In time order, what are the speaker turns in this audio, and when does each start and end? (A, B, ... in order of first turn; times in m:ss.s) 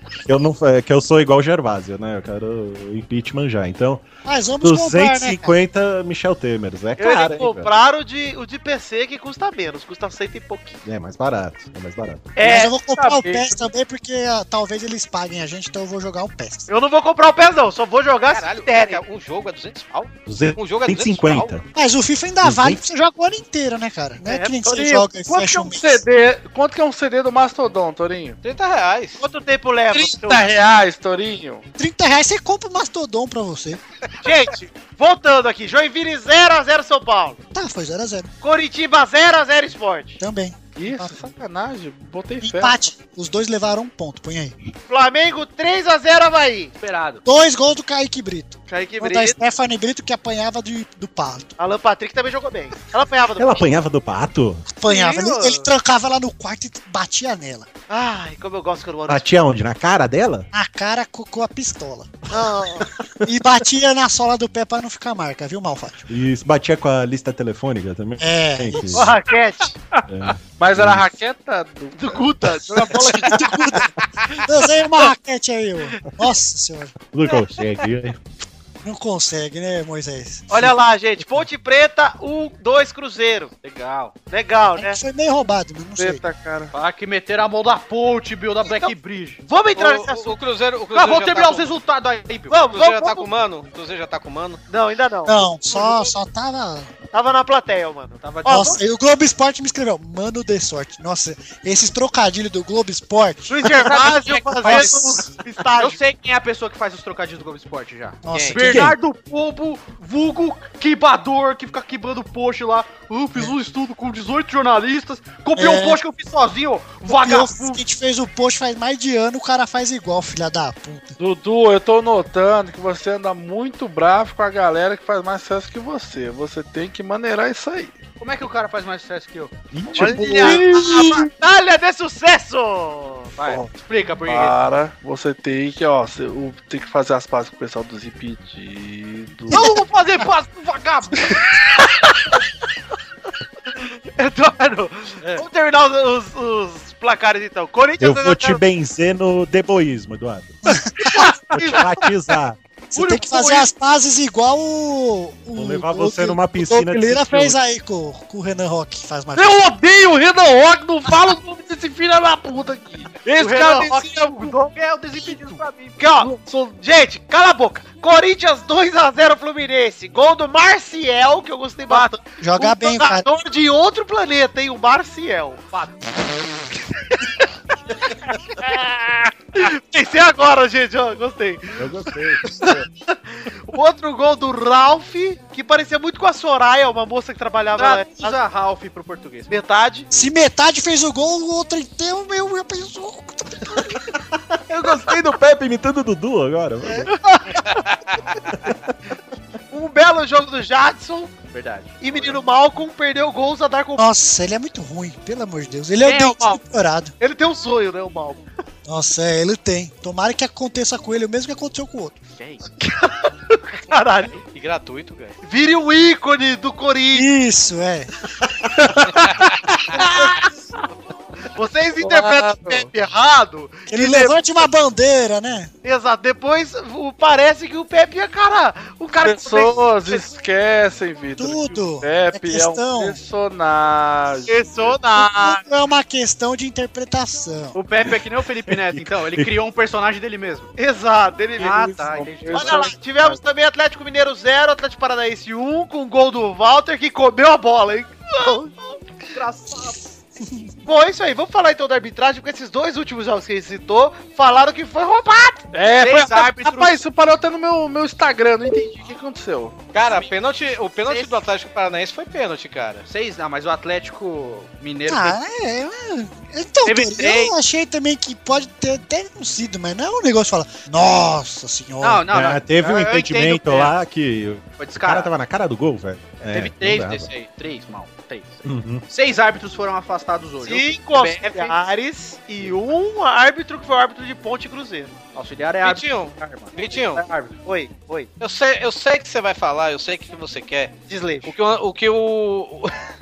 0:00.2-0:04.1 A
0:04.2-0:05.6 B
0:04.6-0:07.7 A
0:07.0-0:10.8 C
0:10.8-0:12.3 A
0:12.4-0:13.2 C
0:12.4-0:16.7 B
0:13.1-0:13.4 D
0:16.7-0:19.0 C
0:18.3-0:21.5 E
0:20.3-0:21.7 A
0:21.7-0:26.0 B
0:22.4-0:22.8 A
0:24.2-0:24.6 C
0:24.6-0:28.4 D
0:28.4-0:29.2 E
0:29.2-0:30.5 C
0:29.9-0:31.6 D
0:31.8-0:33.8 B
0:34.2-0:37.4 C
0:37.5-0:38.3 B
0:38.4-0:40.2 C
0:40.2-0:41.2 B
0:40.8-0:42.8 D
0:42.4-0:44.5 B
0:44.9-0:46.7 C
0:46.8-0:47.2 F
0:47.2-0:51.5 B
0:48.7-0:49.3 C
0:51.6-0:53.7 C
0:53.4-0:54.7 A
0:54.7-0:57.7 B
0:54.8-0:55.6 C
0:57.9-0:59.4 C
0:59.1-1:00.5 A
1:00.5-1:02.2 B
1:02.3-1:02.9 C
1:03.2-1:06.1 B
1:06.1-1:09.2 A
1:08.2-1:09.0 B
1:08.9-1:09.7 C
1:10.1-1:11.1 A
1:10.5-1:13.4 D
1:12.0-1:13.8 C
1:13.2-1:16.9 B
1:17.1-1:18.2 A
1:18.8-1:20.7 B
1:20.5-1:23.5 C
1:23.6-1:24.1 E
1:24.3-1:25.0 C
1:24.7-1:26.2 B
1:26.0-1:26.7 D
1:26.7-1:29.4 F
1:28.7-1:28.9 C
1:29.4-1:30.4 C
1:29.7-1:31.7 E
1:30.9-1:32.6 F
1:32.5-1:33.3 C
1:32.7-1:34.6 E
1:34.7-1:35.5 C
1:35.2-1:36.9 B
1:37.1-1:38.8 C
1:38.2-1:38.8 F
1:38.4-1:44.0 B
1:43.5-1:45.0 F
1:43.6-1:46.0 C
1:44.6-1:45.2 B
1:45.8-1:57.8 F
1:48.2-1:48.9 B
1:48.3-1:48.6 E
1:48.6-1:48.9 A
1:55.6-1:56.0 B
1:57.0-2:01.2 B
2:01.2-2:08.0 D
2:08.2-2:10.6 F
2:09.7-2:10.5 A
2:09.9-2:11.2 D
2:10.1-2:13.3 C
2:13.4-2:14.6 F
2:13.4-2:13.7 D
2:14.2-2:19.8 D
2:19.5-2:21.3 F
2:24.2-2:28.6 C
2:28.0-2:30.8 A
2:30.7-2:31.0 B
2:31.5-2:32.6 A
2:31.6-2:31.9 C
2:32.9-2:39.6 B
2:32.9-2:33.7 F
2:35.6-2:37.6 A
2:39.3-2:44.5 D
2:43.4-2:46.0 F
2:46.0-2:55.6 C
2:46.2-2:46.7 D
2:51.9-2:52.1 F
2:52.4-2:53.2 B
2:55.7-2:56.0 F
2:58.6-3:01.8 C
3:01.8-3:02.8 A
3:02.4-3:08.4 C
3:07.8-3:09.5 F
3:09.5-3:10.1 C
3:10.1-3:14.0 B
3:14.5-3:17.1 A
3:16.9-3:17.8 C
3:18.5-3:18.9 A
3:19.7-3:21.3 C
3:21.5-3:22.4 F
3:22.0-3:24.0 C
3:24.0-3:27.1 B
3:26.0-3:26.6 F
3:27.2-3:28.5 C
3:28.8-3:32.1 B
3:32.8-3:34.4 C
3:34.5-3:35.4 E
3:35.4-3:37.2 C
3:37.1-3:38.1 B
3:39.9-3:40.4 C
3:39.9-3:40.4 D
3:41.5-3:44.6 C
3:42.0-3:42.9 D
3:43.9-3:45.7 B
3:45.8-3:50.3 C
3:49.2-3:54.5 D
3:51.4-3:53.2 B
3:54.5-3:55.6 C
3:55.1-3:57.8 B
3:57.7-4:00.7 F
3:58.7-3:59.5 A
4:00.8-4:01.9 C
4:01.6-4:02.9 F
4:01.6-4:03.3 D
4:02.5-4:08.8 C
4:09.3-4:10.0 F
4:10.8-4:15.6 C
4:15.7-4:19.8 D
4:16.0-4:17.0 F
4:19.9-4:23.0 E
4:21.1-4:21.3 F
4:23.0-4:25.4 F
4:25.1-4:32.3 B
4:26.8-4:27.5 F
4:32.0-4:33.9 F
4:32.3-4:37.3 A
4:34.8-4:35.3 F
4:36.5-4:41.7 F
4:38.6-4:39.0 A
4:40.6-4:45.1 C
4:45.3-4:47.5 F
4:45.8-4:47.2 E
4:47.6-4:48.3 C
4:48.4-4:50.9 E
4:51.1-4:51.5 C
4:51.4-4:52.9 E